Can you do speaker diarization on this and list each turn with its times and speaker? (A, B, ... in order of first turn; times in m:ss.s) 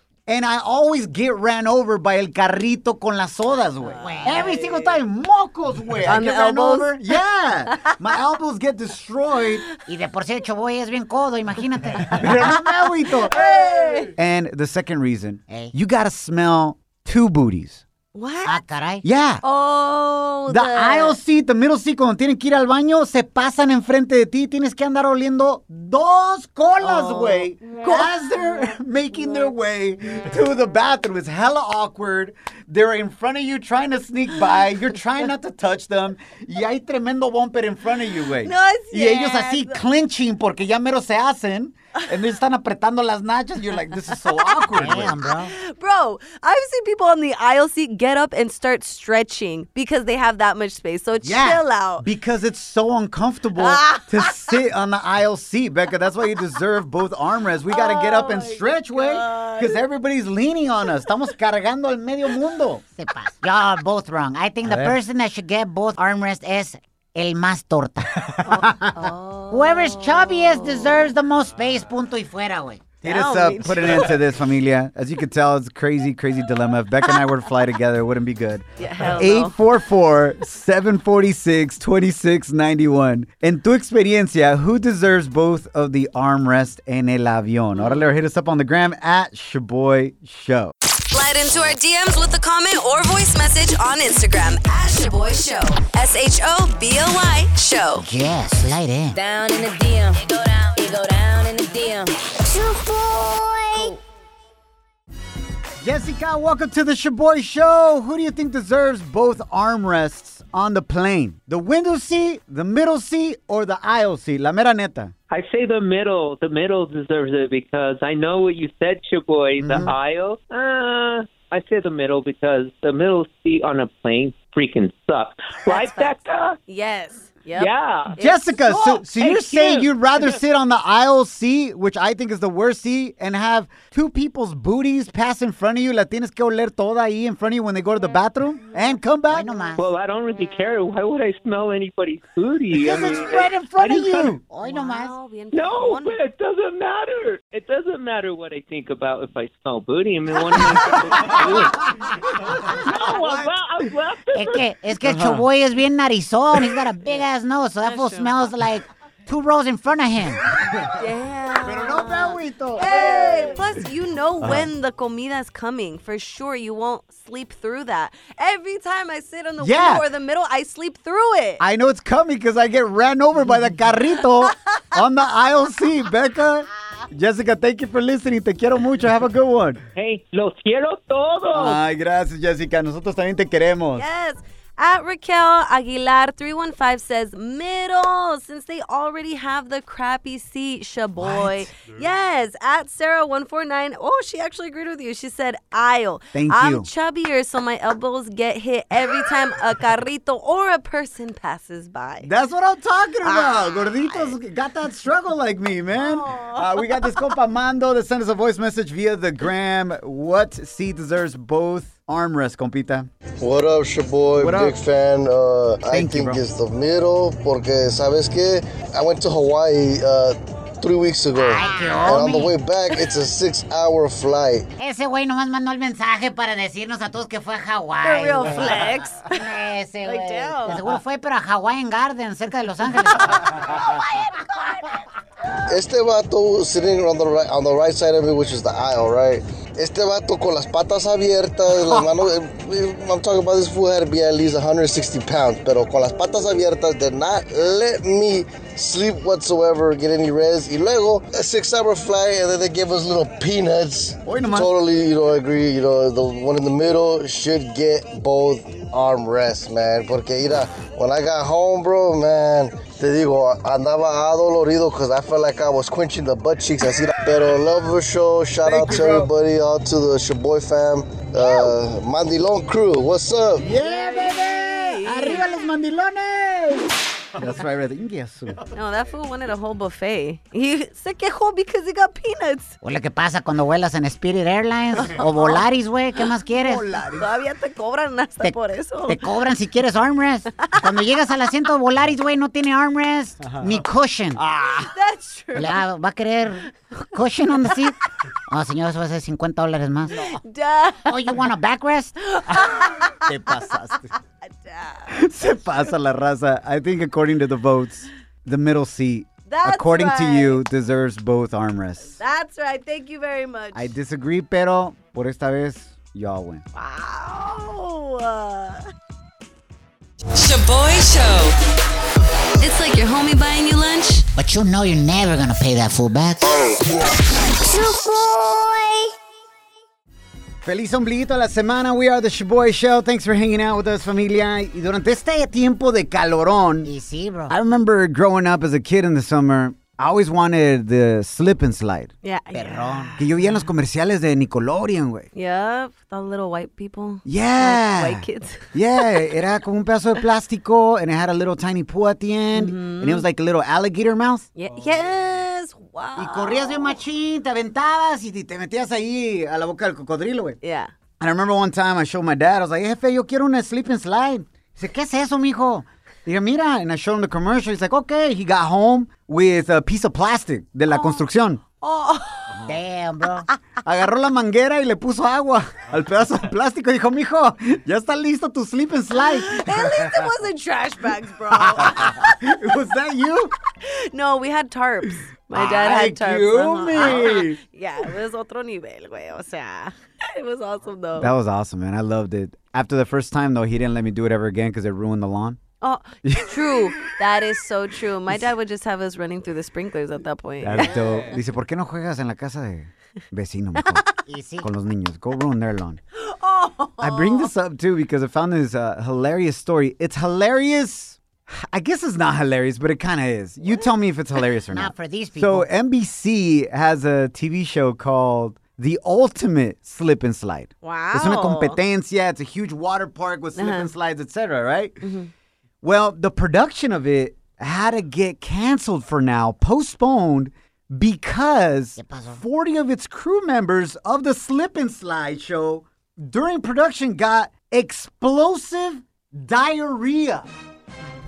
0:00.3-0:09.6 A
0:03.8-0:05.0 B
0:04.0-0:04.9 C
0:06.0-0:07.2 B
0:09.8-0:13.0 C
0:12.1-0:13.4 A
0:13.3-0:14.1 B
0:14.1-0:17.8 A
0:15.5-0:15.7 C
0:18.1-0:18.6 B
0:18.4-0:19.0 C
0:19.0-0:19.4 A
0:19.4-0:21.2 B
0:20.5-0:45.1 A
0:26.8-0:28.1 B
0:38.4-0:39.8 B
0:44.4-0:52.0 B
0:44.8-0:45.5 C
0:51.2-1:02.8 A
0:53.6-0:54.6 B
0:57.7-0:59.8 B
1:03.0-1:08.3 C
1:04.6-1:05.0 A
1:08.4-1:11.1 B
1:09.5-1:12.8 C
1:13.0-1:30.7 A
1:13.0-1:14.2 B
1:17.0-1:17.4 B
1:18.8-1:19.6 B
1:27.7-1:28.1 B
1:31.1-1:38.0 B
1:38.0-1:39.2 C
1:39.1-1:42.1 D
1:45.8-1:55.1 A
1:55.3-2:06.6 E
1:59.6-2:00.0 A
2:05.6-2:06.1 B
2:06.7-2:09.7 B
2:07.6-2:08.2 E
2:08.2-2:19.5 A
2:19.3-2:19.9 C
2:19.8-2:23.4 E
2:22.8-2:24.4 A
2:22.8-2:25.1 C
2:24.6-2:26.2 B
2:25.5-2:31.9 E
2:31.2-2:31.4 A
2:32.2-2:33.5 A
2:32.6-2:34.6 E
2:34.3-2:40.4 C
2:35.0-2:35.4 A
2:37.8-2:38.4 B
2:41.0-2:51.6 B
2:41.6-2:43.5 A
2:44.4-2:44.7 A
2:49.6-2:50.0 A
2:51.6-2:59.8 A
2:54.2-2:54.5 B
2:59.9-3:01.8 E
3:01.5-3:04.0 A
3:04.0-3:22.3 B
3:11.2-3:11.7 A
3:16.3-3:16.9 A
3:22.2-3:33.1 A
3:23.2-3:24.4 B
3:25.9-3:27.3 B
3:33.4-3:44.7 F
3:34.4-3:34.8 A
3:35.9-3:36.4 A
3:41.4-3:42.5 C
3:44.8-3:54.0 C
3:48.0-3:49.5 B
3:50.0-3:50.8 B
3:55.7-4:33.6 F
4:01.7-4:02.1 C
4:14.2-4:14.7 A
4:28.6-4:29.3 A
4:33.6-4:38.6 A
4:33.8-4:35.5 B
4:38.7-4:42.8 B
4:42.8-4:46.8 C
4:45.0-4:45.6 B
4:46.6-4:47.3 A
4:47.2-4:49.2 B
4:48.4-4:54.4 C
4:53.4-4:53.8 A
4:54.4-4:54.9 A
4:54.9-4:55.8 B
4:55.5-4:58.0 C
4:58.5-5:00.3 C
5:00.2-5:01.3 B
5:01.0-5:02.1 C
5:02.2-5:03.6 B
5:02.5-5:04.1 A
5:04.4-5:05.1 B
5:05.1-5:12.2 A
5:09.5-5:10.6 B
5:12.2-5:13.9 B
5:13.7-5:16.6 A
5:16.7-5:18.9 B
5:20.3-5:21.5 D
5:22.6-5:24.3 B
5:24.4-5:26.9 C
5:30.6-5:36.9 A
5:36.8-5:37.5 C
5:37.5-5:42.1 A
5:42.2-5:43.6 B
5:42.5-5:43.2 C
5:43.2-5:45.3 A
5:45.3-5:49.4 B
5:47.2-5:54.5 A
5:52.5-5:53.2 B
5:54.6-5:57.0 B
5:56.2-6:00.6 A
6:00.6-6:00.9 B
6:01.2-6:11.6 A
6:04.9-6:05.3 C
6:10.9-6:11.2 B
6:11.8-6:12.6 B
6:12.6-6:13.5 C
6:13.8-6:20.2 A
6:19.1-6:22.6 B
6:21.7-6:23.5 A
6:23.8-6:31.3 B
6:25.5-6:27.6 A
6:31.2-6:35.6 A
6:35.8-6:41.3 B
6:36.2-6:37.1 A
6:40.6-6:44.1 A
6:43.8-6:44.1 B
6:44.3-6:44.7 C
6:44.6-6:46.0 A
6:46.1-6:47.5 B
6:47.0-7:05.0 A
6:54.7-6:55.7 C
7:00.8-7:01.8 B
7:03.6-7:03.9 B
7:05.0-7:05.3 B
7:05.8-7:20.5 A
7:12.0-7:12.4 C